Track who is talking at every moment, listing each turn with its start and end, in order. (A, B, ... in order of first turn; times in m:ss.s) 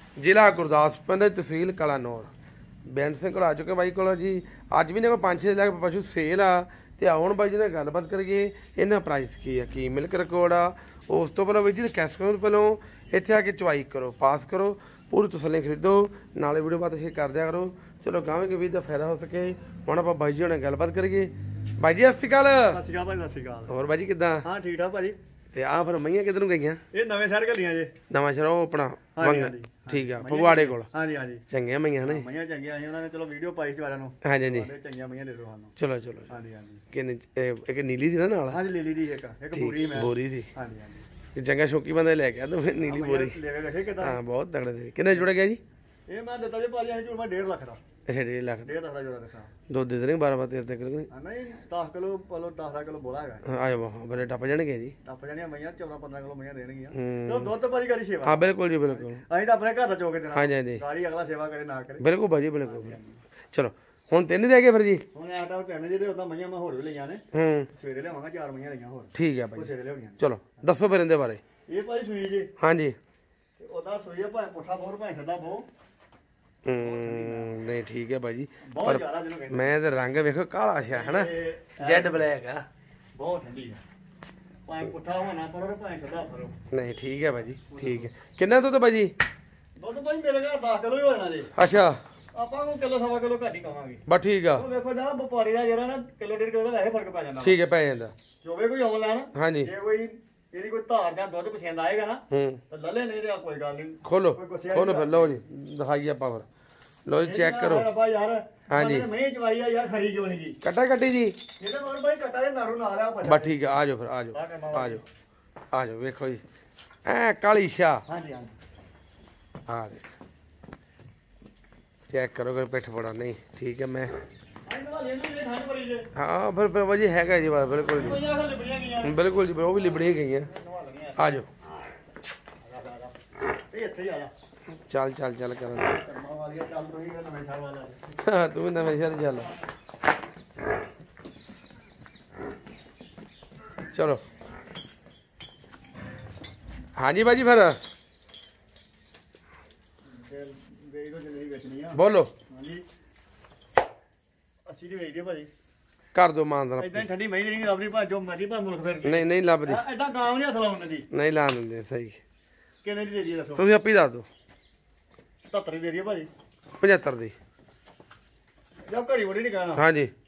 0:00.2-0:02.3 A
0:02.9-0:22.8 A
0:22.7-0:23.7 B
0:23.7-0:24.4 A
0:24.4-0:25.2 B
0:25.5-0:26.8 A
0:26.9-0:27.9 B
0:28.1-0:30.9 A
0:29.2-0:31.4 B
0:31.5-0:32.2 A
0:32.0-0:35.8 B
0:34.2-0:34.7 A
0:35.8-0:36.3 A
0:36.3-0:36.8 B
0:36.9-0:38.6 A
0:38.5-0:41.1 B
0:39.5-0:40.5 A
0:41.4-0:43.4 A
0:42.8-0:44.2 B
0:44.0-0:45.6 A
0:46.1-0:47.8 B
0:48.1-0:48.7 A
0:48.6-0:49.5 B
0:49.7-0:51.1 A
0:51.1-0:53.4 B
0:53.4-0:55.0 A
0:55.0-1:02.0 B
0:56.9-0:57.5 A
0:58.2-0:59.2 A
1:00.3-1:00.8 A
1:02.0-1:03.0 A
1:02.6-1:03.2 B
1:03.5-1:05.0 A
1:05.1-1:10.6 B
1:07.3-1:07.7 A
1:09.2-1:11.4 A
1:11.7-1:12.5 B
1:12.6-1:13.0 A
1:13.6-1:15.7 B
1:16.7-1:22.7 A
1:16.7-1:17.7 B
1:18.7-1:19.7 B
1:20.9-1:22.2 B
1:23.2-1:23.8 B
1:24.7-1:26.6 B
1:26.7-1:29.1 A
1:27.7-1:28.1 B
1:29.8-1:31.5 B
1:31.6-1:32.0 A
1:32.4-1:34.0 B
1:34.1-1:34.7 A
1:34.6-1:37.6 B
1:37.4-1:38.1 A
1:38.4-1:45.4 B
1:39.4-1:39.7 A
1:42.3-1:42.6 A
1:44.0-1:46.5 A
1:47.1-1:47.9 A
1:47.2-1:50.6 B
1:48.7-1:49.1 A
1:50.6-1:51.4 A
1:51.6-1:53.6 B
1:53.2-1:55.0 A
1:54.3-1:55.0 B
1:55.7-1:56.4 A
1:57.1-1:58.0 A
1:58.1-1:58.6 B
1:59.7-2:00.0 A
2:02.1-2:04.1 A
2:04.7-2:06.1 B
2:06.2-2:08.2 A
2:07.9-2:09.2 B
2:09.0-2:10.5 A
2:10.4-2:11.4 B
2:11.2-2:11.5 A
2:12.6-2:13.2 B
2:13.7-2:14.3 B
2:14.9-2:16.0 A
2:15.8-2:18.0 B
2:18.2-2:19.5 A
2:23.9-2:24.2 A
2:27.0-2:27.8 A
2:30.1-2:32.8 B
2:31.9-2:32.3 A
2:34.7-2:35.5 B
2:36.1-2:37.1 A
2:36.8-2:41.1 B
2:39.0-2:39.8 A
2:41.1-2:42.2 A
2:42.8-2:43.6 B
2:43.6-2:44.3 A
2:45.4-2:46.3 B
2:46.8-2:47.4 A
2:48.9-2:49.8 B
2:49.8-2:50.1 A